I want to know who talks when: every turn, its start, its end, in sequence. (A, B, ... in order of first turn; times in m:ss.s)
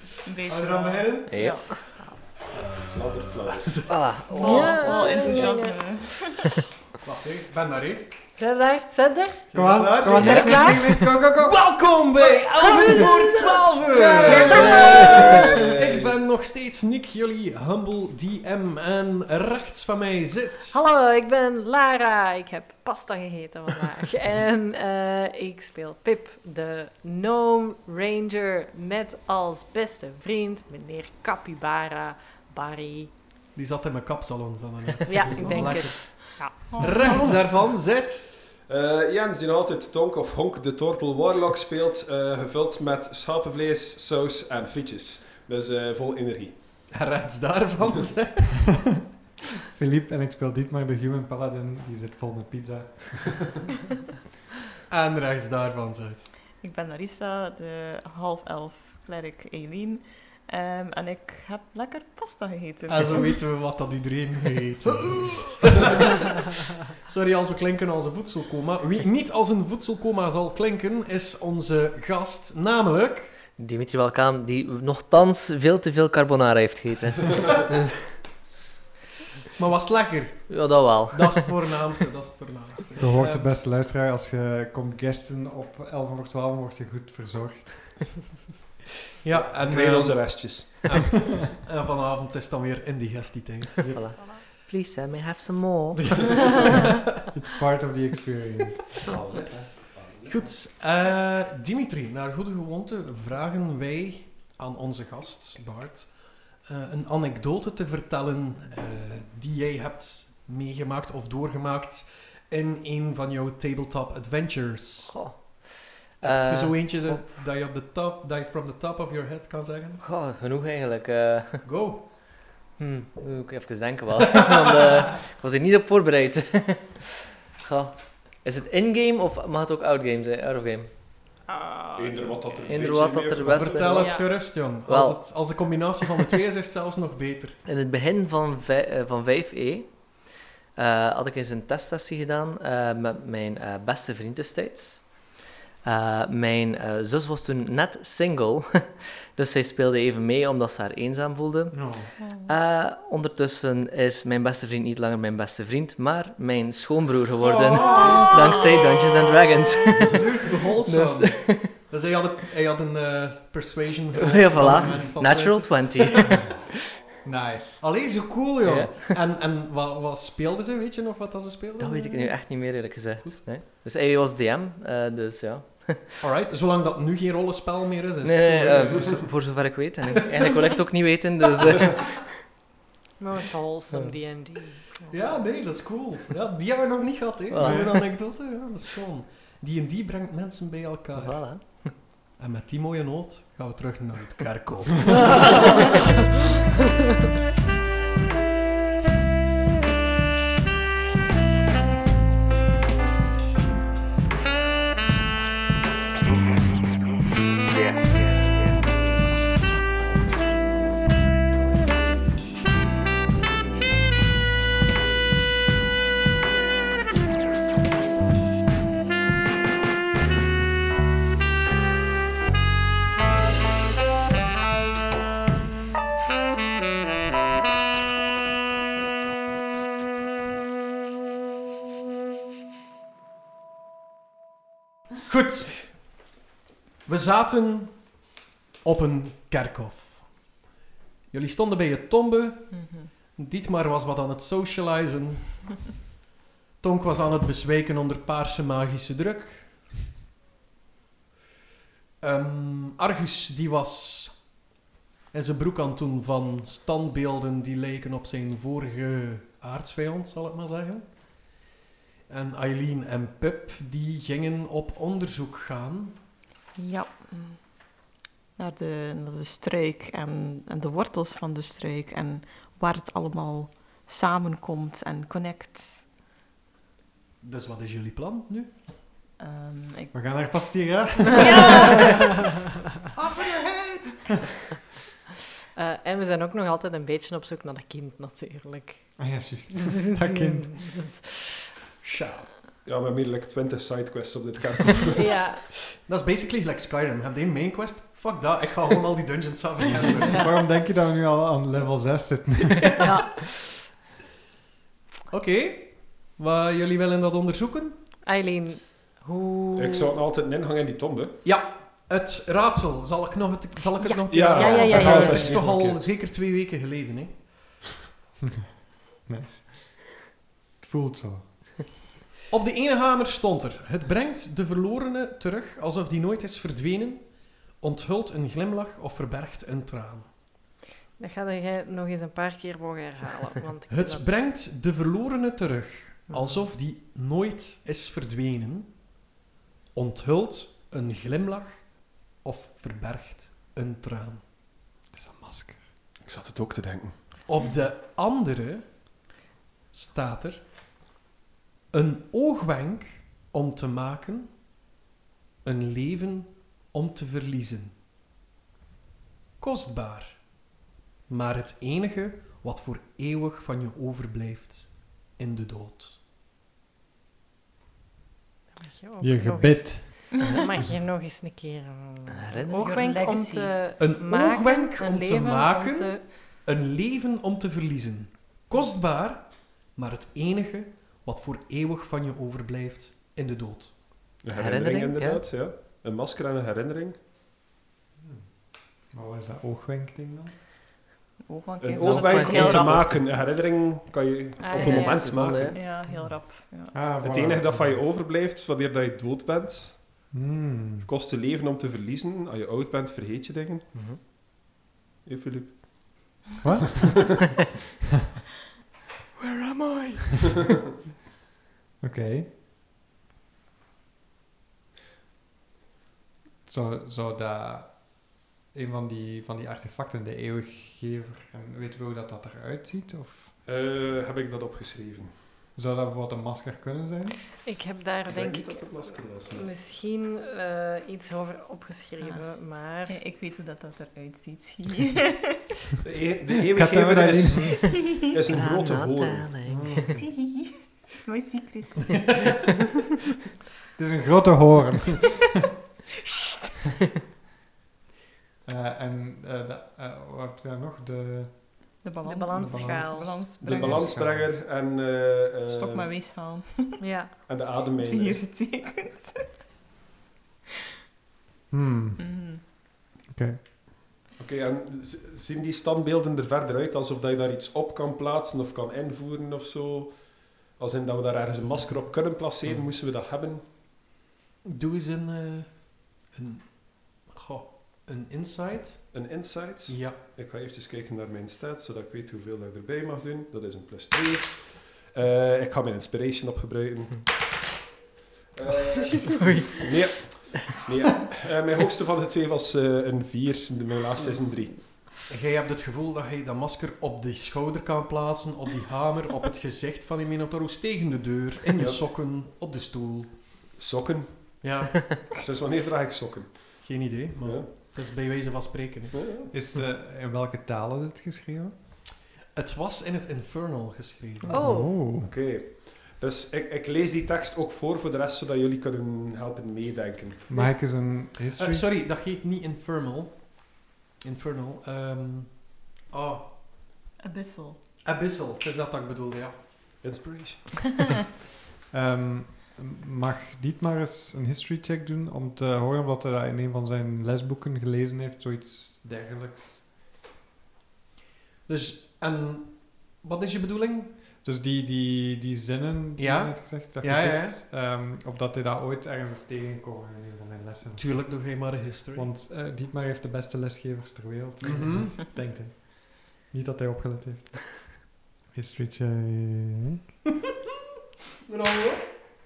0:00.2-0:01.9 A
0:00.5-0:01.8 B
0:01.3-0:02.0 C
0:02.5-0:04.1 B
0:02.8-0:03.9 D
0:03.9-0:05.2 C
0:04.4-0:06.3 A
0:04.4-0:05.9 E
0:07.0-0:08.1 B
0:08.4-0:09.5 E
0:09.5-0:10.9 B
0:09.6-0:11.6 F
0:10.2-0:11.0 C
0:10.2-0:10.8 E
0:11.4-0:20.8 B
0:12.4-0:15.6 E
0:13.9-0:16.1 D
0:20.7-0:33.1 E
0:33.5-0:38.3 B
0:35.1-0:37.3 E
0:35.2-0:35.9 F
0:35.4-0:37.4 A
0:38.7-0:46.9 D
0:46.9-0:48.8 B
0:49.7-0:53.4 F
0:54.9-0:56.3 B
0:56.6-1:03.5 A
1:02.9-1:13.3 B
1:13.6-1:18.1 C
1:19.6-1:23.5 B
1:20.5-1:21.8 C
1:23.0-1:28.2 F
1:29.2-1:33.9 B
1:29.3-1:31.0 D
1:33.9-1:36.4 C
1:36.0-1:36.4 B
1:37.3-1:38.9 F
1:39.0-1:40.5 D
1:40.2-1:55.4 B
1:55.1-1:57.2 C
1:56.2-2:00.0 B
2:00.0-2:01.7 C
2:01.6-2:02.1 B
2:02.8-2:11.0 C
2:11.5-2:12.6 E
2:12.0-2:14.1 D
2:12.7-2:16.0 C
2:13.4-2:17.6 B
2:14.0-2:14.3 E
2:17.6-2:40.2 C
2:31.7-2:32.1 F
2:37.4-2:38.6 B
2:40.1-2:46.4 B
2:40.9-2:41.7 C
2:44.2-2:46.5 C
2:47.2-2:47.8 F
2:47.8-2:52.2 B
2:48.6-2:49.2 C
2:51.8-2:56.2 C
2:56.2-2:59.4 B
2:58.2-3:02.3 C
3:03.2-3:05.5 E
3:03.9-3:04.2 C
3:05.1-3:16.0 B
3:07.5-3:08.2 C
3:11.1-3:12.0 C
3:27.7-3:29.0 C
3:55.3-3:56.2 B
3:57.0-3:58.3 B
3:58.8-4:00.5 B
4:01.3-4:05.9 B
4:02.7-4:03.1 A
4:06.8-4:09.7 B
4:12.2-4:14.6 B
4:15.3-4:21.5 B
4:22.3-4:26.2 B
4:26.8-4:27.8 A
4:28.6-4:36.1 A
4:37.4-4:38.7 B
4:39.4-4:40.1 A
4:40.1-4:42.2 F
4:41.4-4:42.3 E
4:43.1-4:44.4 B
4:45.8-4:51.7 E
4:49.2-4:50.9 F
4:52.0-4:52.5 B
4:52.8-4:55.4 D
4:55.2-4:55.7 E
4:56.0-5:00.6 B
5:00.3-5:03.0 F
5:03.0-5:03.5 E
5:05.3-5:08.0 B
5:08.2-5:10.2 E
5:09.8-5:11.4 D
5:11.4-5:17.5 B
5:14.0-5:15.6 E
5:14.3-5:16.0 D
5:14.9-5:15.6 F
5:19.2-5:20.3 F
5:20.8-5:21.8 F
5:22.5-5:30.3 B
5:31.2-5:34.3 E
5:33.9-5:39.1 B
5:39.9-5:44.4 B
5:45.1-5:45.8 F
5:46.2-5:47.3 D
5:47.5-5:49.0 B
5:49.9-5:50.7 B
5:51.9-5:54.5 B
5:55.6-5:58.0 B
5:59.6-6:06.2 B
6:08.8-6:16.4 E
6:09.2-6:10.4 F
6:12.3-6:12.9 C
6:12.8-6:13.9 A
6:14.0-6:24.0 B
6:24.4-6:27.2 D
6:24.5-6:25.5 C
6:28.2-6:30.6 F
6:31.5-6:33.1 A
6:31.8-6:35.9 D
6:32.0-6:33.2 C
6:34.6-6:35.3 E
6:34.7-6:35.8 C
6:35.7-6:37.1 A
6:36.1-6:38.0 F
6:37.2-6:40.2 D
6:40.3-6:41.1 F
6:41.0-6:43.9 D
6:43.9-6:44.2 C
6:45.2-6:46.4 D
6:46.6-6:47.4 F
6:49.4-6:50.4 C
6:52.0-6:52.5 F
6:56.7-7:03.5 F
7:03.6-7:05.4 D
7:05.8-7:07.4 F
7:07.6-7:13.2 E
7:08.3-7:09.7 D
7:12.2-7:15.6 A
7:16.0-7:19.5 D
7:16.7-7:18.0 F
7:17.7-7:18.3 A
7:18.5-7:20.2 C
7:19.6-7:20.3 F
7:20.2-7:22.4 A
7:24.0-7:25.5 F
7:28.6-7:34.5 F
7:32.0-7:34.1 A
7:32.3-7:33.4 E
7:33.6-7:36.1 D
7:35.7-7:37.0 A
7:37.0-7:37.7 E
7:37.4-7:38.5 D
7:38.0-7:39.5 A
7:41.7-7:42.4 F
7:42.2-7:42.6 A
7:43.3-7:43.6 F
7:44.4-7:53.7 D
7:54.6-7:59.4 B
7:59.1-8:07.4 D
7:59.9-8:00.2 B
8:08.5-8:14.9 D
8:09.2-8:10.8 C
8:15.3-8:23.5 B
8:21.8-8:22.0 D
8:23.7-8:27.7 D
8:24.6-8:25.2 B
8:26.8-8:29.5 B
8:29.1-8:29.5 D
8:29.5-8:31.7 F
8:32.5-8:34.8 B
8:34.5-8:35.1 E
8:34.5-8:35.3 F
8:35.2-8:40.5 D
8:40.5-8:41.9 F
8:41.5-8:46.9 B
8:47.2-8:47.8 A
8:48.0-8:50.0 B
8:50.0-8:50.8 D
8:51.9-8:59.8 F
9:01.7-9:04.2 B
9:04.4-9:20.1 F
9:06.2-9:07.6 B
9:11.0-9:12.3 B
9:14.6-9:15.2 B
9:21.5-9:22.2 B